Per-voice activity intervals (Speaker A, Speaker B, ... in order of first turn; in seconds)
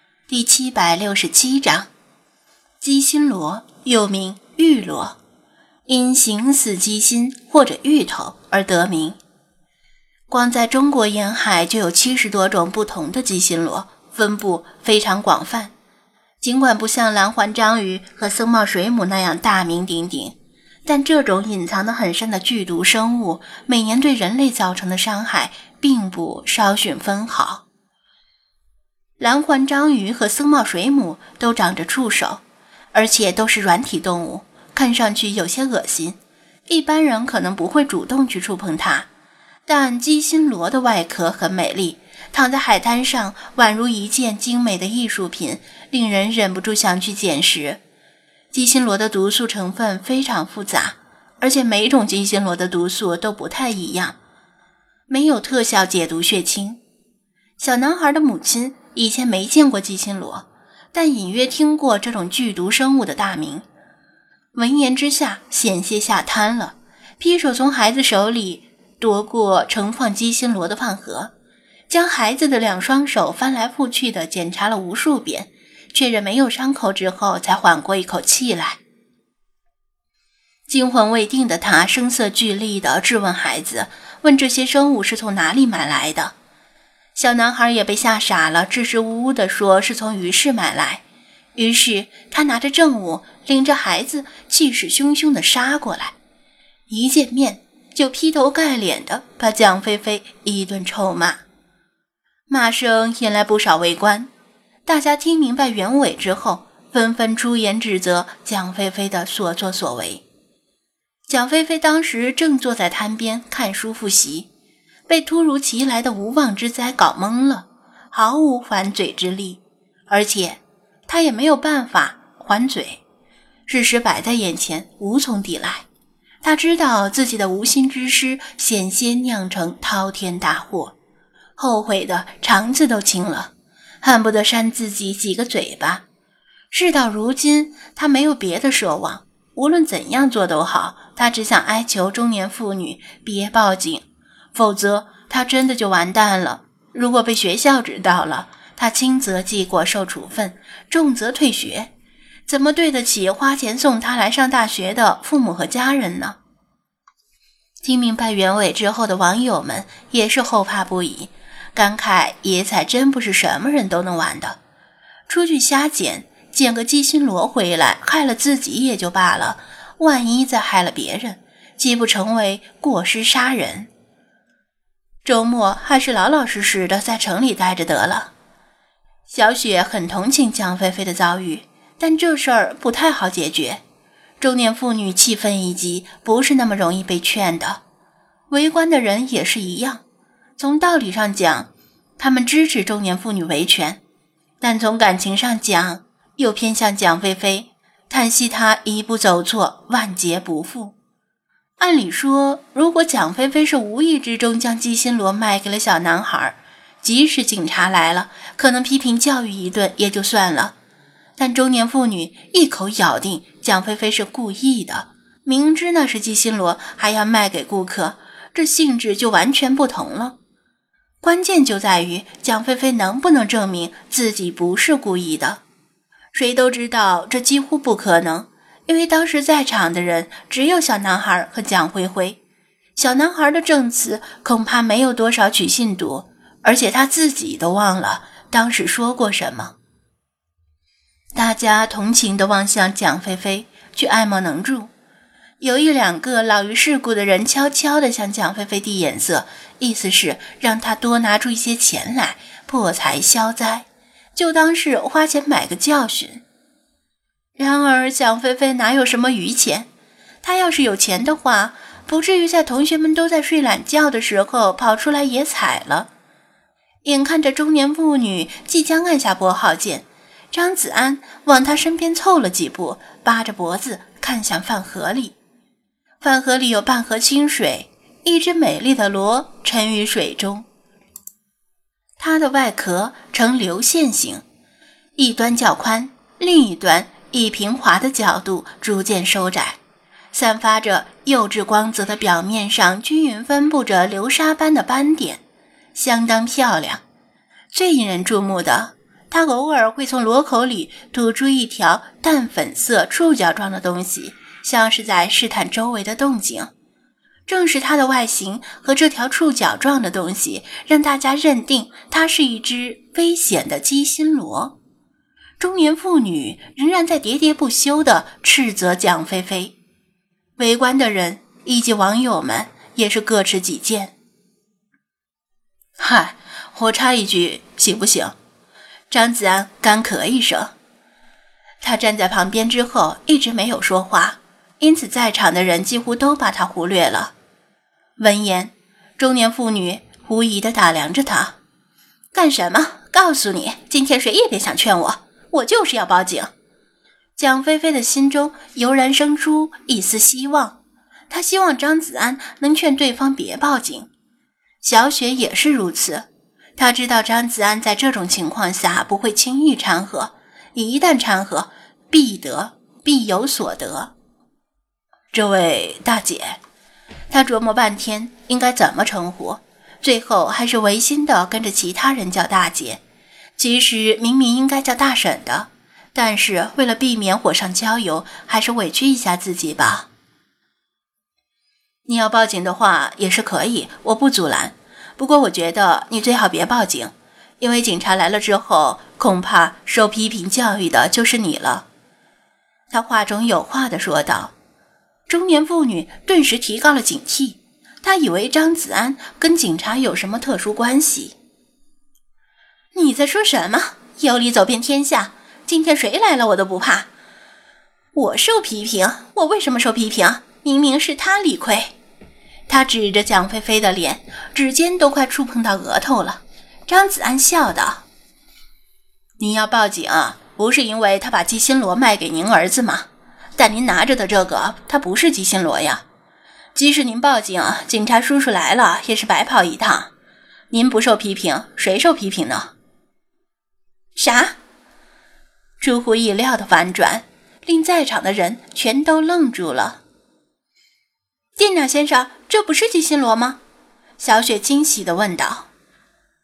Speaker A: 0.3-1.9, 2.8-5.2, 5.9-9.2, 10.3-15.7, 16.4-27.6, 29.2-32.4, 32.9-36.2, 36.7-39.1, 39.7-47.8, 48.5-54.2, 55.1-56.8, 57.6-63.7, 64.5-71.3, 71.9-78.8, 80.7-86.3, 87.2-91.0, 91.5-96.2, 96.9-101.4, 102.5-104.3, 104.9-110.2, 111.3-114.5, 115.1-123.0, 123.7-125.9, 126.4-130.9, 131.6-133.5, 134.0-136.1, 136.7-151.9, 152.5-156.4, 157.8-164.6, 165.3-173.9, 175.2-178.3, 179.3-183.8, 184.4-187.8, 188.5-190.0, 190.6-194.0, 194.6-200.9, 201.8-210.8, 211.4-220.4, 221.2-225.6, 226.3-232.4, 233.0-239.8, 241.3-244.9, 245.6-256.4, 257.6-259.9, 260.4-266.1, 267.0-275.4, 276.2-280.7, 282.2-284.4, 285.2-289.8, 290.3-295.4, 295.9-297.0, 297.7-306.7, 307.5-314.8, 315.6-319.8, 320.6-324.1, 326.0-328.4, 329.1-330.7, 331.8-337.3, 338.2-341.6, 342.3-346.5, 347.4-350.8, 351.3-354.1, 354.8-364.1, 365.3-366.6, 367.3-373.0, 373.6-380.1, 382.1-391.9, 392.9-394.5, 395.3-401.4, 402.9-407.1, 408.1-411.9, 412.7-418.0, 419.4-426.0, 426.8-430.1, 430.7-432.7, 434.1-434.6, 435.8-440.0, 441.6-443.6, 444.2-445.7